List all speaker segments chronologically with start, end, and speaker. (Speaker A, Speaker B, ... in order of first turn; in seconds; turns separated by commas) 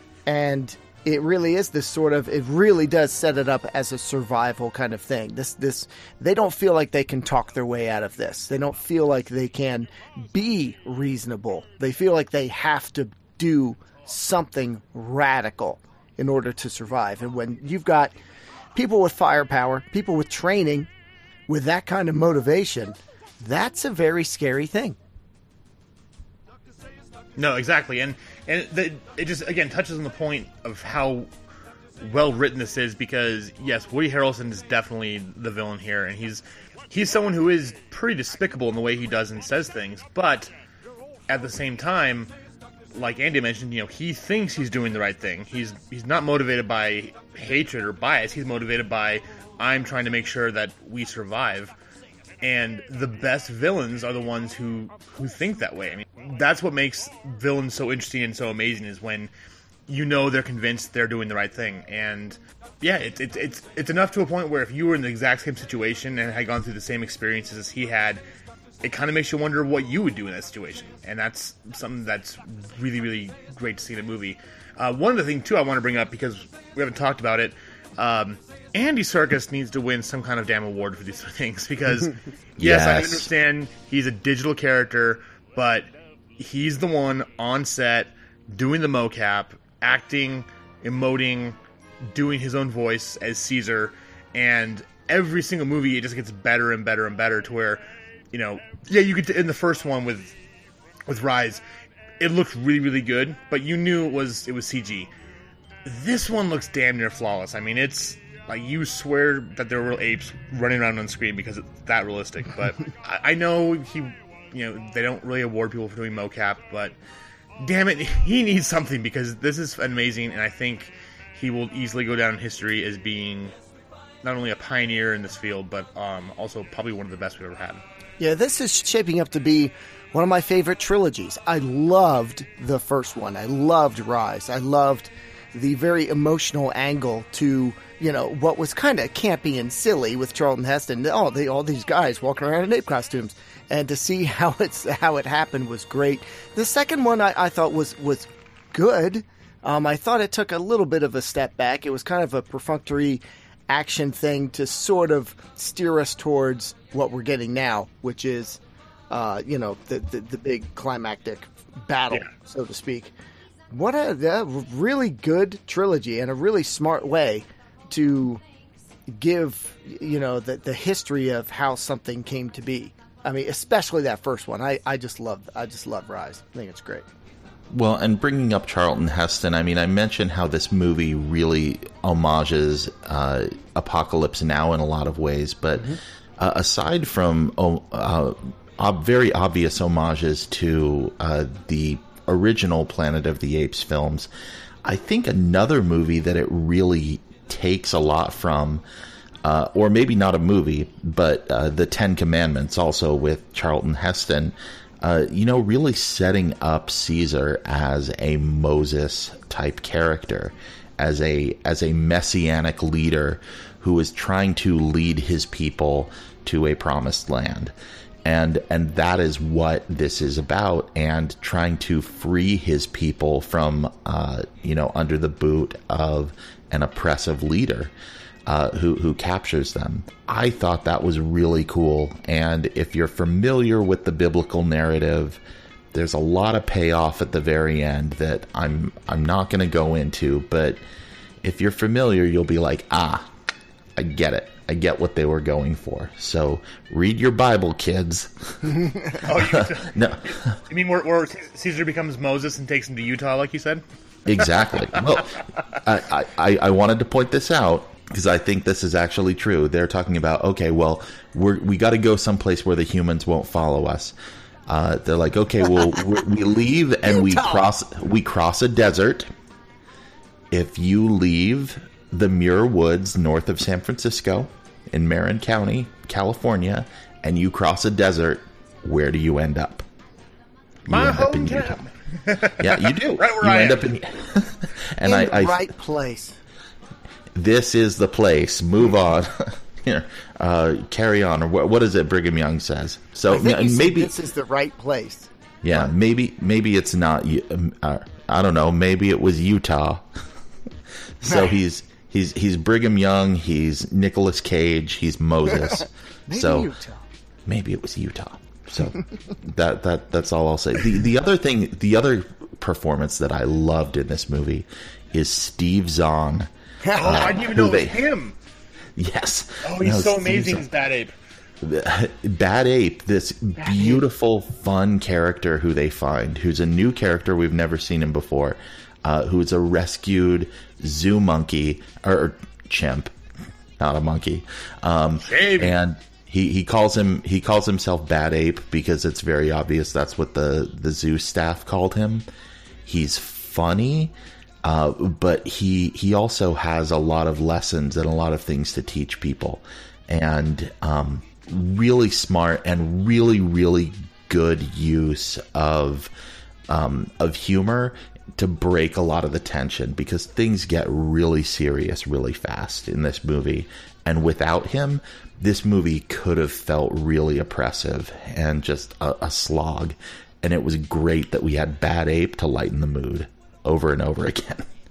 Speaker A: 0.3-18.1, Speaker A: 18.8-20.9, Speaker A: 21.5-25.0, Speaker B: 27.4-31.3, Speaker B: 32.0-40.5, Speaker B: 41.3-42.3, Speaker B: 42.9-51.7, Speaker B: 52.4-59.3, Speaker B: 59.9-68.2, Speaker B: 68.8-100.4, Speaker C: 82.6-83.3, Speaker B: 101.1-101.6, Speaker B: 102.2-105.1, Speaker B: 105.8-117.0, Speaker B: 117.6-123.5, Speaker B: 124.2-127.8, Speaker A: 128.2-163.1, Speaker A: 163.7-168.4, Speaker A: 169.1-177.1, Speaker C: 177.7-194.3, Speaker C: 194.8-198.8, Speaker C: 199.4-217.7, Speaker C: 218.2-227.9, Speaker C: 228.5-235.4, Speaker C: 235.9-240.8, Speaker C: 241.4-243.3, Speaker C: 244.0-248.8, Speaker B: 249.1-250.0, Speaker C: 249.3-250.6, Speaker B: 250.7-253.8, Speaker C: 254.3-264.1, Speaker B: 254.4-255.0, Speaker C: 264.7-269.3, Speaker A: 267.2-267.6, Speaker C: 270.5-279.9, Speaker C: 280.9-281.8, Speaker B: 280.9-283.9, Speaker C: 282.6-285.7, Speaker A: 285.0-286.4, Speaker C: 287.4-294.1, Speaker A: 293.3-295.9, Speaker C: 295.6-300.1, Speaker C: 301.2-306.7, Speaker A: 301.2-301.5, Speaker A: 306.3-307.1, Speaker C: 307.5-318.0, Speaker A: 316.8-317.2, Speaker B: 317.0-318.4, Speaker C: 319.0-320.7, Speaker B: 319.6-321.1, Speaker C: 321.6-333.1, Speaker A: 323.6-324.0, Speaker C: 333.8-342.3, Speaker B: 335.2-335.8, Speaker C: 342.9-356.1, Speaker C: 356.7-374.7